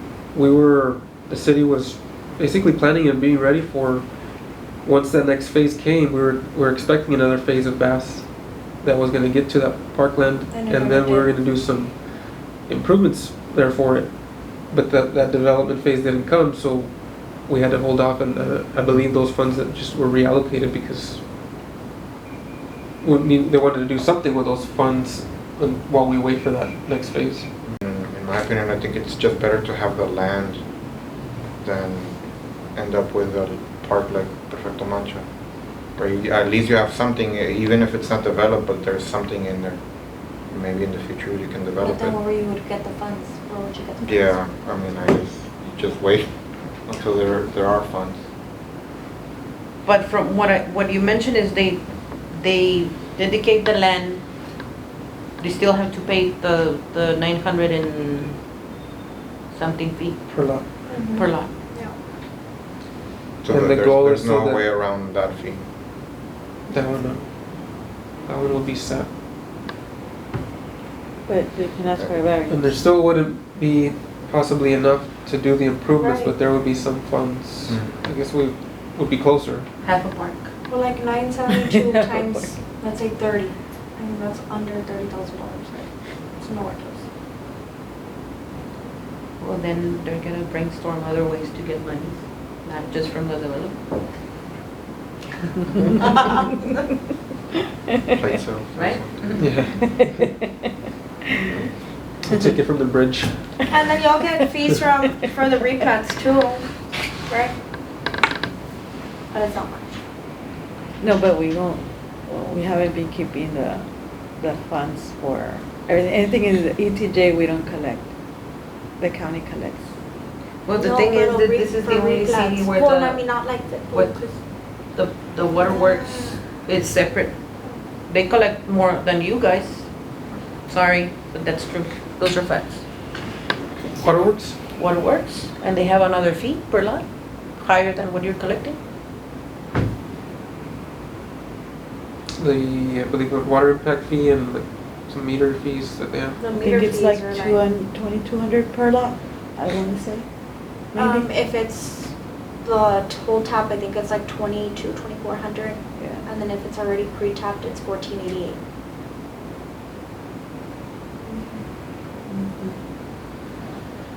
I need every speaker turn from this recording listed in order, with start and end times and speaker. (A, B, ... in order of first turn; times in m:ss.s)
0:00.3-0:04.1 A
0:04.8-0:12.0 A
0:10.5-0:11.3 B
0:12.6-0:21.2 A
0:23.0-0:27.5 A
0:27.7-0:30.6 C
0:31.6-0:32.2 C
0:32.7-0:35.3 C
0:36.0-0:39.8 C
0:40.4-0:42.2 C
0:41.8-0:44.4 B
0:44.0-0:48.2 C
0:49.8-0:54.3 D
0:55.4-0:58.4 D
0:59.5-1:00.4 D
1:00.3-1:00.6 A
1:00.9-1:02.0 B
1:01.1-1:01.5 D
1:03.4-1:05.7 C
1:03.5-1:04.6 A
1:06.7-1:07.3 A
1:08.2-1:09.1 A
1:11.3-1:12.8 E
1:12.5-1:19.7 A
1:16.0-1:16.3 B
1:17.7-1:18.0 C
1:19.8-1:20.5 D
1:20.7-1:27.0 B
1:21.5-1:22.6 E
1:29.4-1:34.0 D
1:38.2-1:39.4 C
1:38.8-1:39.7 D
1:39.4-1:40.0 A
1:39.8-1:40.5 E
1:42.2-1:43.6 A
1:43.7-1:46.7 B
1:44.2-1:45.8 E
1:47.3-1:47.5 B
1:49.3-1:49.8 B
1:51.0-1:53.9 E
1:54.4-1:58.1 E
1:59.0-1:59.9 E
2:00.6-2:03.2 D
2:00.8-2:04.4 B
2:03.9-2:04.2 D
2:04.9-2:07.4 D
2:05.6-2:06.4 B
2:08.1-2:09.9 D
2:10.7-2:12.8 D
2:14.0-2:14.6 A
2:14.8-2:18.8 D
2:22.4-2:26.4 A
2:26.4-2:27.6 B
2:26.5-2:30.3 E
2:30.9-2:31.3 E
2:31.0-2:32.1 B
2:32.6-2:38.6 B
2:36.0-2:36.3 E
2:42.3-2:42.8 E